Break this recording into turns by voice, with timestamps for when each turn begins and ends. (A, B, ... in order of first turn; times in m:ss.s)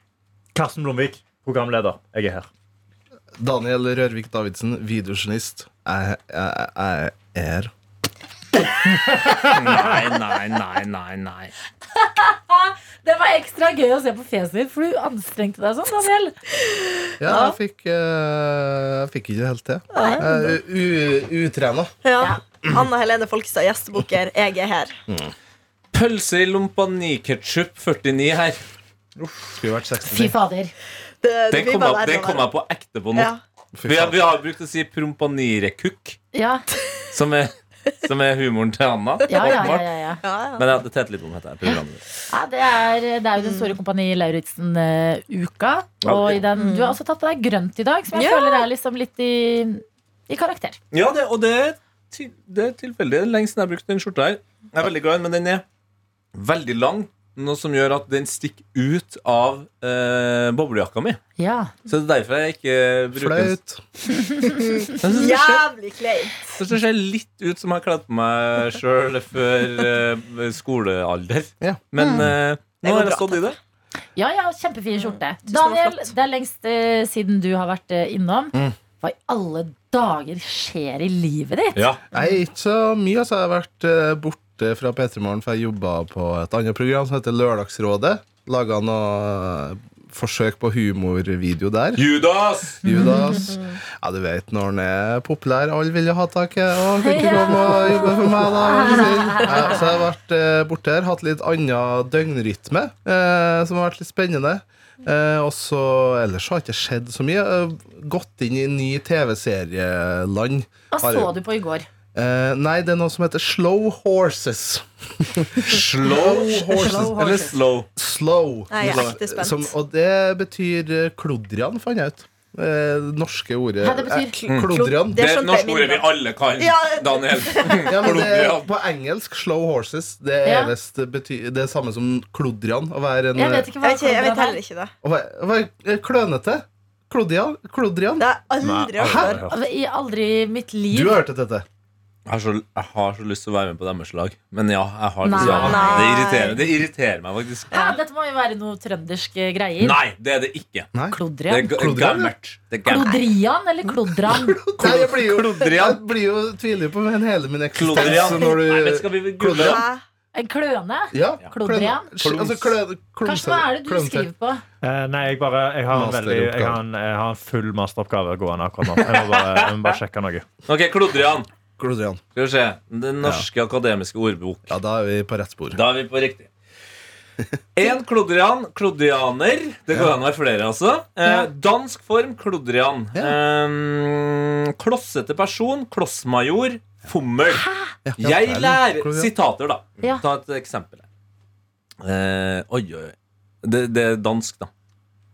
0:00.5-0:02.5 A
0:03.4-0:07.7 B
0:09.3-0:09.7 A
0:09.4-0:11.5 C
0:11.9-0:16.3 D
0:16.7-0:17.6 E
0:17.2-0:21.9 B
0:19.9-0:20.4 E
0:20.0-0:20.2 D
0:22.0-0:25.0 E
0:25.1-0:25.3 B
0:25.9-0:28.6 C
0:29.5-0:30.3 B
0:30.1-0:30.7 D
0:31.2-0:32.4 E
0:31.5-0:33.3 C
0:33.1-0:33.4 E
0:33.7-0:34.2 B
0:33.8-0:36.2 C
0:36.3-0:36.6 D
0:37.1-0:39.9 C
0:39.3-0:40.2 D
0:39.3-0:40.8 E
0:40.6-0:42.0 C
0:42.3-0:50.8 D
0:43.4-0:43.7 E
0:46.0-0:46.4 C
0:46.6-0:47.0 E
0:48.1-0:48.6 E
0:50.9-0:55.6 C
0:56.3-1:01.2 C
1:01.4-1:01.7 D
1:01.9-1:03.6 C
1:03.1-1:03.8 B
1:04.4-1:06.4 E
1:05.0-1:05.6 C
1:06.5-1:13.6 C
1:11.6-1:12.2 B
1:12.0-1:12.3 D
1:12.8-1:13.5 E
1:14.2-1:21.9 D
1:15.4-1:16.1 E
1:21.8-1:22.0 C
1:22.1-1:32.1 B
1:32.0-1:33.0 C
1:32.8-1:51.3 B
1:32.9-1:33.5 D
1:33.4-1:33.7 E
1:37.0-1:39.8 D
1:50.9-1:51.9 D
1:52.1-1:57.2 B
1:55.6-1:57.9 C
1:56.4-1:57.6 D
1:58.0-2:05.2 B
1:58.7-1:59.7 E
1:58.8-1:59.1 C
2:03.8-2:04.4 D
2:04.5-2:08.7 C
2:05.0-2:08.0 E
2:07.9-2:13.7 B
2:10.4-2:10.7 D
2:13.4-2:14.6 D
2:13.8-2:14.9 E
2:15.0-2:18.3 B
2:18.2-2:19.4 E
2:18.6-2:19.6 A
2:19.0-2:19.4 B
2:19.5-2:21.2 D
2:20.9-2:21.6 B
2:22.2-2:27.7 C
2:25.2-2:26.2 D
2:25.4-2:26.6 E
2:25.4-2:25.7 B
2:27.7-2:28.0 E
2:27.7-2:30.0 D
2:29.8-2:30.9 C
2:30.9-2:32.3 B
2:31.1-2:31.7 D
2:31.5-2:33.3 C
2:32.8-2:34.6 D
2:34.3-2:39.8 B
2:34.8-2:36.0 C
2:37.7-2:39.8 C
2:38.0-2:38.3 E
2:39.6-2:40.0 E
2:40.3-2:42.1 D
2:41.1-2:44.3 B
2:42.2-2:42.8 C
2:43.2-2:44.6 D
2:44.8-2:50.5 A
2:45.9-2:46.8 B
2:49.0-2:49.9 C
2:50.7-2:51.5 C
2:51.8-2:52.2 B
2:52.3-2:54.7 C
2:54.7-2:55.8 B
2:55.7-2:56.5 C
2:57.7-3:07.6 C
3:07.5-3:07.9 D
3:08.0-3:09.3 B
3:08.2-3:11.0 C
3:12.0-3:14.7 C